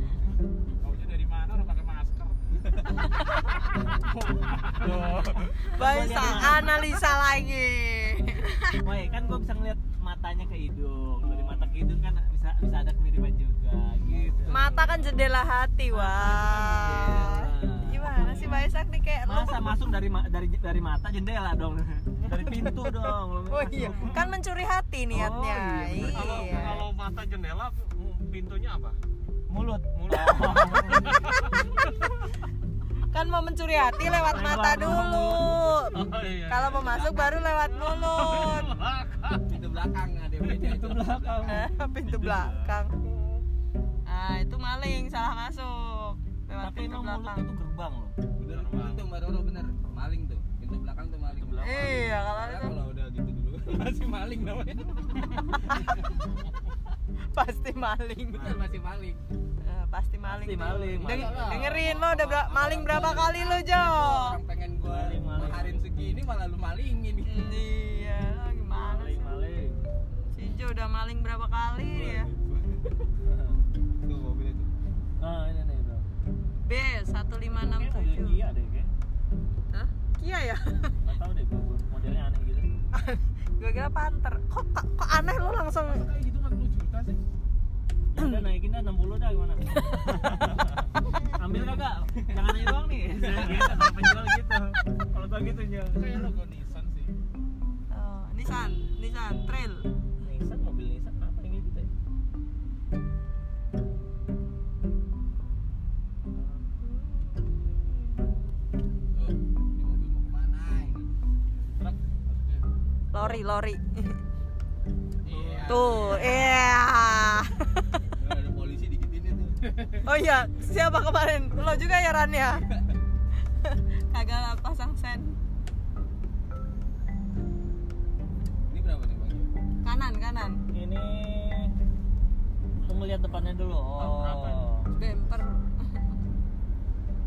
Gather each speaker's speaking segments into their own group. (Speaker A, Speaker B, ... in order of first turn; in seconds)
Speaker A: 0.8-5.4, 85.7-87.2, 95.9-97.1, 111.8-112.7, 115.3-116.2
Speaker B: 4.8-5.6, 26.0-29.0, 29.9-31.7, 35.9-37.0, 37.7-39.5, 43.0-43.4, 48.4-49.1, 55.3-56.5, 133.9-134.8
Speaker C: 5.0-6.8, 8.8-15.2, 15.9-18.6, 19.2-24.4, 25.1-26.8, 29.5-31.3, 34.2-36.1, 40.4-42.4, 46.6-48.1, 51.4-52.0, 60.3-61.6, 64.9-65.8, 68.8-69.8, 73.2-73.6, 75.2-76.0, 77.5-78.9, 81.0-82.7, 88.1-90.7, 91.3-96.2, 100.2-101.9, 115.6-116.6, 130.7-131.7, 132.8-134.9
Speaker D: 5.6-8.8, 14.5-19.8, 22.5-26.8, 33.1-35.9, 36.5-38.7, 41.5-42.9, 44.0-47.4, 51.6-52.8, 55.7-56.0, 57.3-58.6, 59.6-64.4, 67.3-69.4, 70.3-72.3, 76.6-78.4, 79.7-80.9, 82.9-86.0, 88.2-88.5, 97.9-99.9, 106.8-108.2, 113.1-114.2, 115.7-117.9, 120.0-122.7, 123.6-125.3, 129.8-130.6, 134.9-136.2
Speaker E: 14.1-14.7, 36.9-37.5, 39.4-41.6, 48.4-55.6, 58.3-59.2, 60.7-67.5, 71.9-72.9, 74.0-74.7, 109.1-111.1, 115.2-116.5, 118.2-120.0, 128.7-129.5